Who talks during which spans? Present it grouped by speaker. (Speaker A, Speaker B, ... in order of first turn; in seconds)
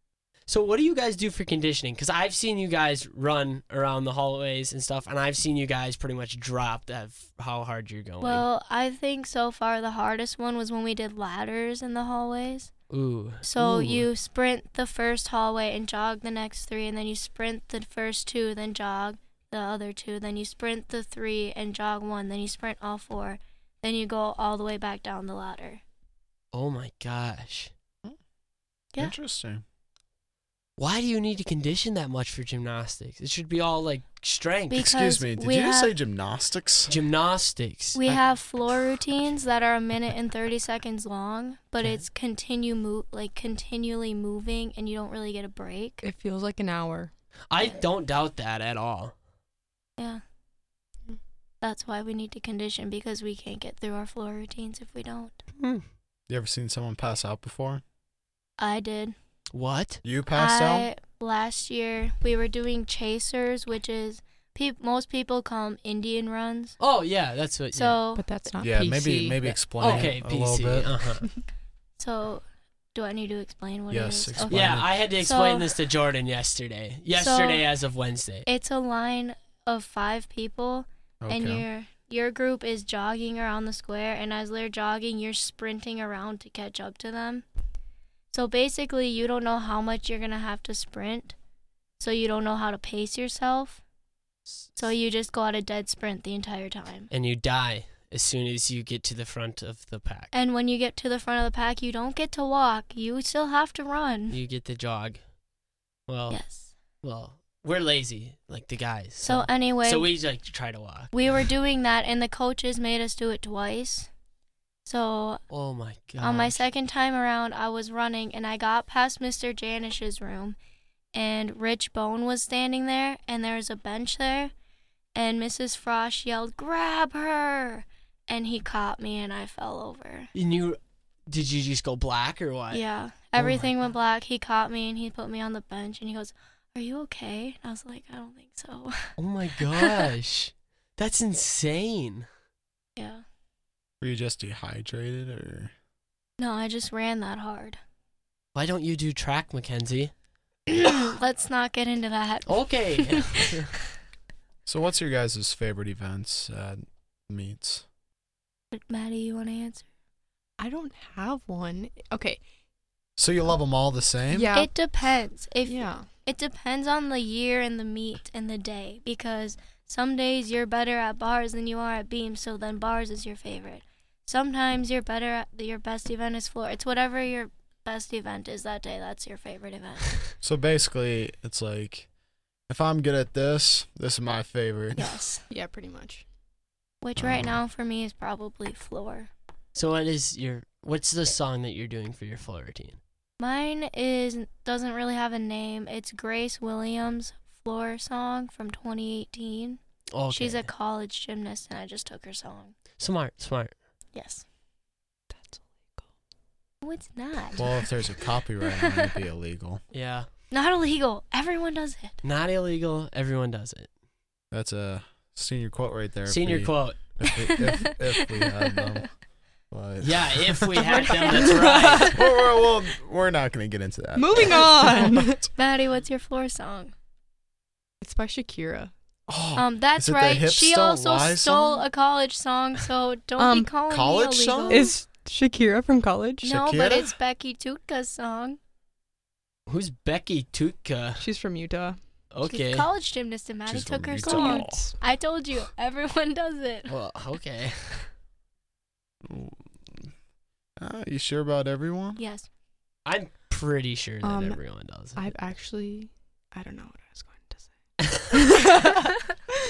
Speaker A: 0.5-8.4, 12.9-14.1, 26.5-27.7, 30.8-34.8, 36.9-38.0, 47.5-49.1, 55.6-55.8, 59.5-60.0, 66.8-68.0, 69.8-71.3, 74.5-78.5, 94.5-94.7, 97.1-100.3, 104.3-105.2, 106.1-106.4, 107.0-111.1, 115.5-116.6, 130.3-132.8, 133.3-133.7, 139.2-142.3, 148.5-150.1, 152.5-153.7, 189.7-193.0, 200.1-200.7, 203.0-203.7, 209.9-210.3, 212.2-213.9, 216.3-217.0, 220.0-222.2, 239.7-241.2, 242.3-242.9, 246.9-248.1, 253.1-255.3
Speaker B: 8.2-12.7, 13.4-25.8, 34.7-35.9, 37.9-46.0, 51.6-55.4, 58.6-59.1, 60.3-66.8, 67.7-68.2, 72.0-75.7, 77.1-77.7, 78.5-87.4, 88.3-91.3, 92.0-93.8, 94.8-97.1, 100.3-104.4, 106.3-106.7, 109.2-110.1, 111.1-114.1, 114.8-115.4, 116.2-120.6, 121.1-124.5, 125.1-130.3, 132.7-139.2, 139.7-140.1, 142.9-143.2, 146.4-147.8, 150.7-153.5, 158.7-159.8, 164.5-180.2, 185.0-185.4, 187.0-189.3, 193.4-199.8, 200.3-202.8, 204.1-204.4, 206.8-207.7, 208.7-209.1, 210.5-212.2, 217.3-219.0, 220.8-221.6, 225.6-226.9, 229.6-234.9, 236.4-238.6, 242.4-246.9, 252.2-252.5
Speaker C: 29.0-29.6, 34.8-37.0, 56.3-57.8, 60.0-60.9, 68.6-71.0, 73.9-74.9, 81.2-81.7, 144.0-145.7, 154.7-157.8, 163.2-164.5, 180.4-182.1, 182.7-185.1, 187.2-187.5, 207.6-209.8, 214.5-219.1, 219.7-221.0, 222.1-225.5, 229.3-231.8, 233.9-234.9, 236.5-237.1, 243.7-244.9, 249.2-250.1, 250.8-252.2
Speaker D: 46.0-47.1, 68.2-70.0, 160.6-162.4, 164.3-164.7, 165.6-166.1, 185.5-186.2, 205.3-206.1, 221.2-222.2, 224.1-225.4, 228.0-228.9, 233.4-233.7, 234.7-236.6, 241.2-242.0, 244.2-244.9, 254.2-254.6, 255.1-259.4